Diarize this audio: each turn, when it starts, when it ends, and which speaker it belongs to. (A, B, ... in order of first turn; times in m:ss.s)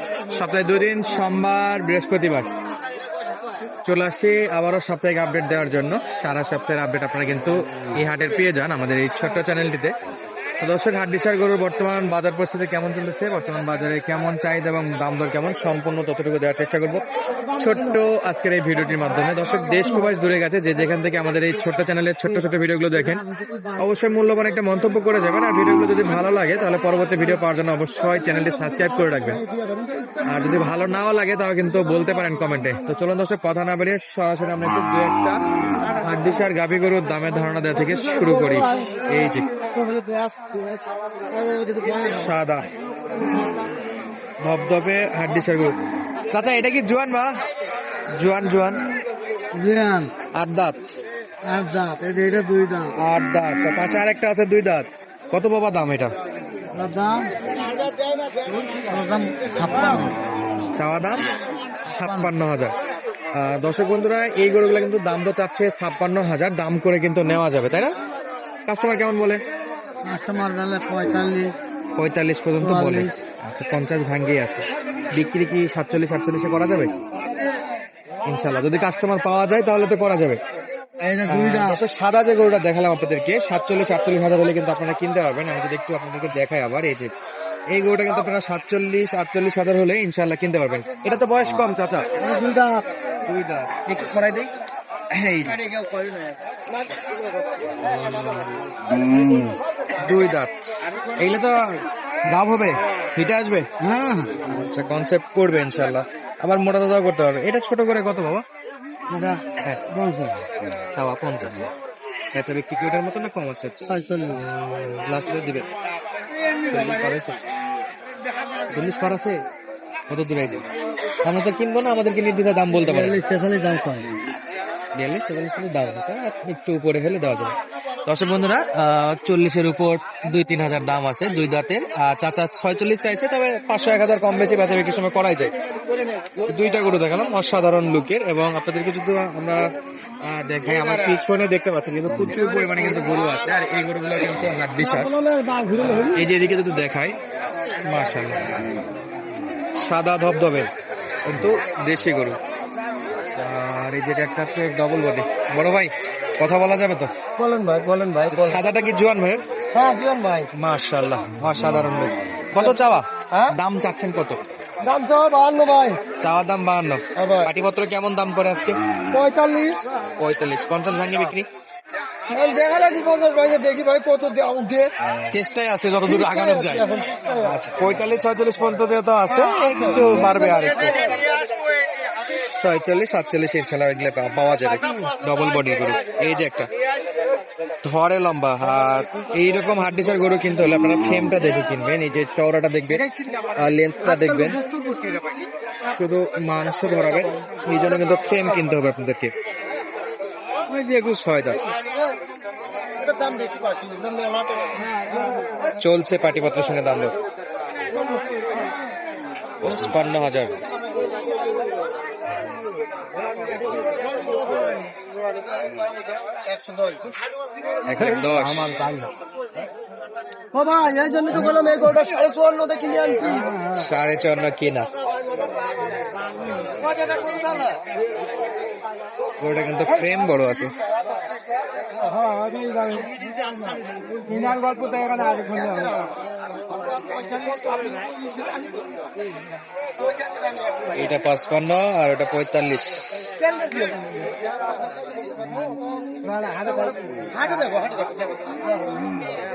0:00.3-0:02.5 A
0:03.8-0:09.9 A
0:10.6-0:17.0 A
0:17.5-0:23.2 A
0:23.8-0:29.4 A
0:29.4-0:30.2 B
0:30.2-0:35.4 A
0:35.9-0:39.5 A
0:37.9-0:38.8 B
0:39.7-0:42.3 B
0:41.9-0:42.7 A
0:44.4-0:45.7 A
0:46.3-0:47.4 A
0:48.1-0:48.8 A
0:49.5-0:50.1 B
0:50.3-0:50.9 A
0:51.4-0:52.9 B
0:53.0-0:56.1 A
0:56.7-0:57.3 B
0:58.8-1:00.2 B
1:00.7-1:01.3 A
1:01.9-1:02.7 A
1:02.0-1:02.3 B
1:03.3-1:07.9 A
1:08.6-1:09.4 A
1:10.0-1:11.6 B
1:12.0-1:16.9 A
1:12.6-1:13.1 B
1:18.2-1:20.4 A
1:21.0-1:21.8 B
1:21.2-1:27.1 A
1:27.7-1:32.1 A
1:32.2-1:32.8 B
1:33.2-1:34.5 A
1:35.1-1:35.6 A
1:35.4-1:36.4 B
1:37.8-1:38.5 A
1:40.0-1:40.6 A
1:41.2-1:43.7 A
1:43.8-1:44.4 B
1:44.4-1:48.4 A
1:49.1-1:50.4 B
1:50.9-1:51.7 A
1:52.3-1:55.7 A
1:53.9-1:54.4 B
1:56.6-1:57.4 A
1:58.7-1:59.4 A
2:00.1-2:00.6 A
2:01.2-2:03.2 A
2:02.8-2:04.1 B
2:04.9-2:07.5 A
2:08.0-2:15.5 A
2:16.4-2:19.7 A
2:20.2-2:25.1 A
2:24.8-2:26.2 B
2:25.8-2:27.2 A
2:27.8-2:28.5 A
2:29.8-2:30.7 A
2:31.2-2:32.4 A
2:33.4-2:37.1 A
2:37.4-2:38.6 B
2:38.3-2:39.4 A
2:39.7-2:40.5 B
2:40.5-2:44.4 A
2:44.8-2:46.0 B
2:46.2-2:48.8 A
2:47.2-2:47.5 B
2:49.1-2:49.9 B
2:50.2-2:51.5 A
2:52.3-2:54.9 B
2:55.3-2:56.9 A
2:56.0-2:57.5 B
2:57.4-3:01.1 A
2:59.3-3:00.0 B
3:02.3-3:06.7 A
3:07.8-3:14.6 A
3:14.4-3:15.3 B
3:15.8-3:19.3 A
3:20.7-3:21.6 A
3:23.0-3:25.3 B
3:25.8-3:27.1 A
3:29.6-3:30.6 A
3:36.4-3:37.1 B
3:37.9-3:38.7 A
3:40.5-3:43.6 B
3:43.6-3:44.9 A
3:47.1-3:47.6 B
3:49.4-3:50.7 A
3:52.2-3:53.1 B
3:54.2-3:56.0 B
3:57.2-3:58.1 B
4:00.9-4:03.2 A
4:03.5-4:04.0 B
4:06.2-4:08.6 B